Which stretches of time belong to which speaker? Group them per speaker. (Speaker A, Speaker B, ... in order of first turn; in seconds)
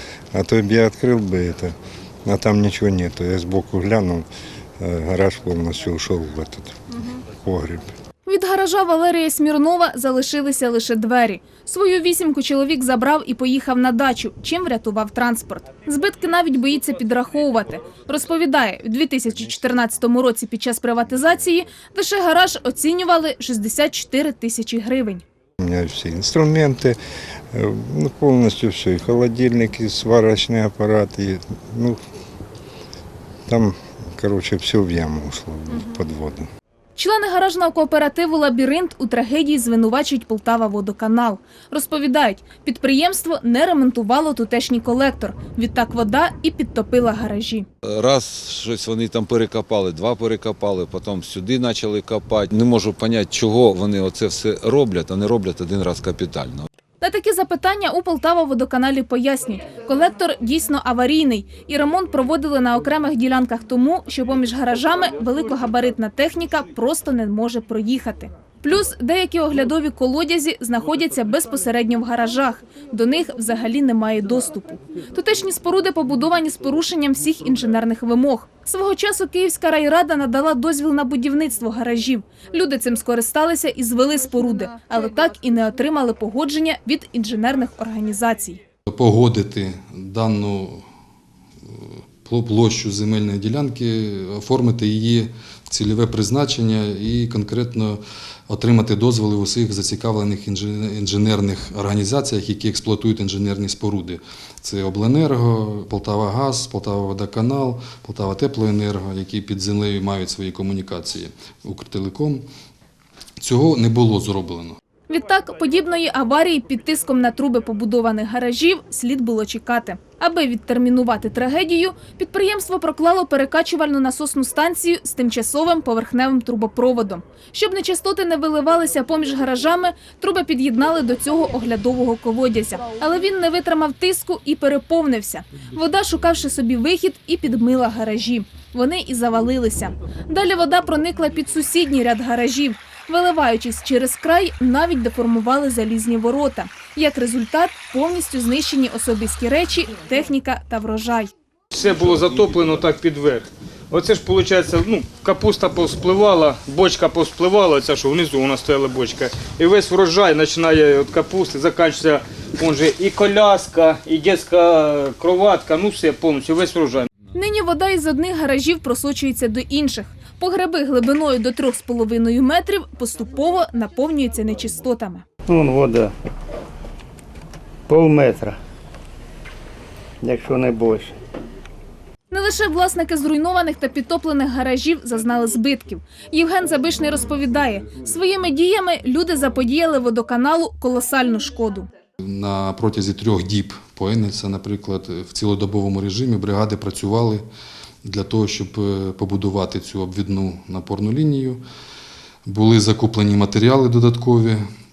Speaker A: 0.3-1.7, 2.2-4.2, 4.8-7.9, 25.6-26.9, 27.5-32.0, 33.5-36.5
Speaker B: 8.2-25.2, 37.0-47.6, 57.0-88.6, 115.1-151.3, 167.3-175.2, 182.3-191.9
Speaker C: 48.0-56.6
Speaker D: 88.9-90.8, 91.7-112.5, 113.4-114.8, 192.2-197.4, 198.0-201.6, 202.4-204.6
Speaker E: 151.7-167.1
Speaker F: 175.5-176.1, 177.9-178.6, 180.2-181.2